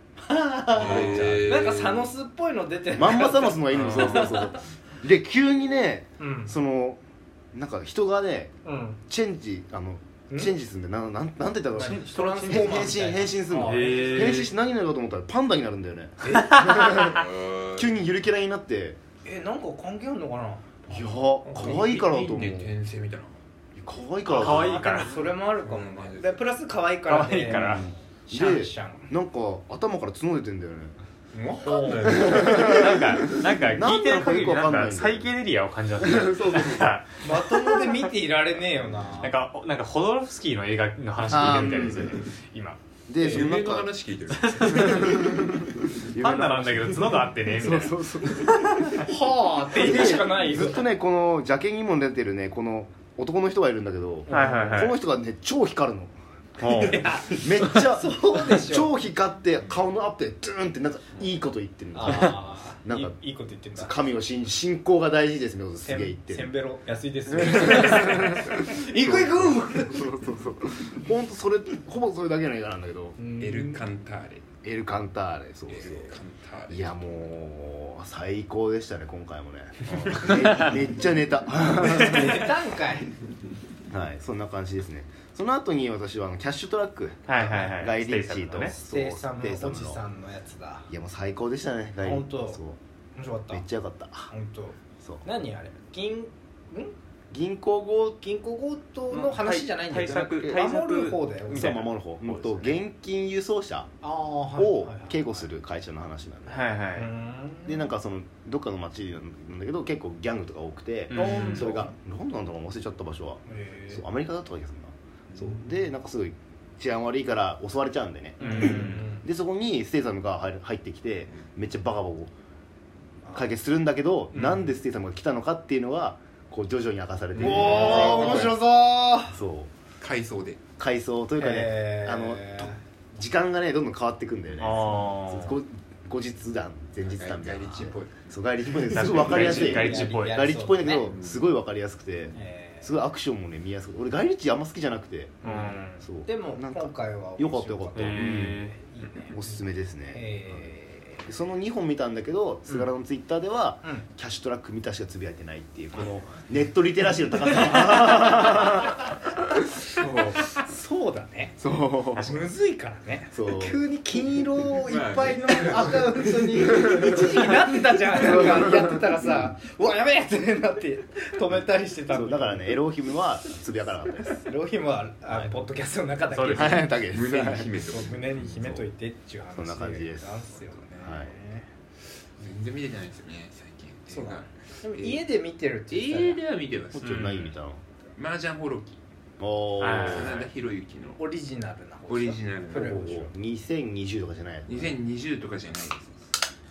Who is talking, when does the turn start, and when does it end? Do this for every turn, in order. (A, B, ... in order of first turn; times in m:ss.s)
0:00.2-0:04.6 A
0:00.7-0:01.6 B
0:00.7-0:02.1 C
0:02.9-0:07.0 B
0:03.7-0:04.4 D
0:06.2-0:06.5 A
0:07.5-0:08.5 B
0:08.6-0:09.0 A
0:09.1-0:19.0 B
0:10.3-0:10.5 A
0:11.8-0:14.5 A
0:11.8-0:12.9 D
0:13.5-0:14.5 D
0:16.2-0:16.7 A
0:16.3-0:16.9 D
0:16.9-0:17.9 C
0:19.2-0:20.7 A
0:20.9-0:22.7 B
0:21.4-0:23.4 C
0:23.8-0:24.8 B
0:24.2-0:29.1 A
0:24.3-0:25.2 D
0:24.9-0:26.4 C
0:27.1-0:27.8 D
0:27.5-0:30.9 B
0:31.3-0:32.9 C
0:31.6-0:32.5 A
0:32.0-0:35.3 B
0:32.1-0:37.9 D
0:36.0-0:36.9 B
0:37.2-0:39.4 A
0:39.2-0:42.8 D
0:41.3-0:42.2 B
0:43.1-0:43.9 B
0:43.2-0:43.5 A
0:43.2-0:45.6 C
0:44.4-0:45.1 D
0:44.7-0:49.0 B
0:46.1-0:49.0 D
0:49.0-0:50.8 A
0:49.7-1:03.1 B
0:54.3-0:54.9 A
0:54.3-0:55.0 D
0:56.6-0:57.0 D
0:56.6-0:58.9 A
1:01.9-1:03.9 A
1:03.8-1:06.5 B
1:05.8-1:10.1 A
1:07.3-1:13.2 B
1:13.2-1:13.8 A
1:13.4-1:14.4 C
1:14.6-1:16.2 B
1:15.7-1:17.0 C
1:16.7-1:22.5 B
1:19.9-1:20.8 D
1:21.8-1:23.1 A
1:23.9-1:30.0 B
1:27.3-1:28.7 D
1:28.8-1:30.9 A
1:30.9-1:32.8 B
1:32.0-1:32.6 A
1:33.1-1:33.6 A
1:33.5-1:34.3 B
1:34.3-1:36.9 A
1:37.3-1:38.2 B
1:38.2-1:41.9 A
1:39.1-1:42.7 D
1:40.1-1:40.6 B
1:41.5-1:43.9 B
1:44.0-1:45.4 A
1:44.6-1:46.6 B
1:46.5-1:47.1 D
1:47.0-1:47.8 A
1:47.6-2:02.3 B
1:51.1-1:51.8 D
1:51.1-1:51.9 A
1:53.5-1:54.0 A
1:55.3-1:55.6 C
1:58.4-1:59.1 D
1:58.4-1:59.2 A
2:03.3-2:08.6 B
2:04.3-2:04.7 A
2:07.3-2:08.6 C
2:07.4-2:09.4 A
2:09.3-2:09.7 B
2:10.0-2:10.6 C
2:10.8-2:25.4 B
2:11.4-2:12.8 A
2:14.6-2:15.6 D
2:17.0-2:19.3 C
2:18.9-2:20.5 D
2:19.2-2:21.1 A
2:21.1-2:21.5 C
2:22.3-2:22.9 A
2:25.4-2:26.0 D
2:25.4-2:31.2 A
2:26.0-2:28.6 B
2:27.9-2:28.8 D
2:29.3-2:30.7 B
2:31.2-2:40.4 B
2:37.8-2:38.7 A
2:40.5-2:41.6 A
2:41.6-2:42.4 B
2:42.2-2:42.4 D
2:42.2-2:52.8 A
2:43.3-2:43.8 B
2:44.8-2:47.2 C
2:48.2-2:49.0 B
2:52.1-2:54.4 B
2:54.4-2:56.9 A
2:55.3-2:55.6 B
2:56.3-2:56.8 D
2:56.5-2:57.7 B
2:57.0-2:58.9 C
2:57.8-3:01.7 A
2:59.6-3:00.3 B
3:01.0-3:01.3 B
3:02.4-3:05.2 C
3:04.1-3:06.4 A
3:05.9-3:07.4 C
3:06.9-3:07.8 B
3:07.0-3:07.5 D
3:08.1-3:09.0 C
3:09.4-3:10.5 B
3:09.8-3:10.4 D
3:10.0-3:11.2 C
3:11.2-3:13.3 A
3:12.1-3:13.2 C
3:12.7-3:14.9 B
3:14.7-3:16.3 C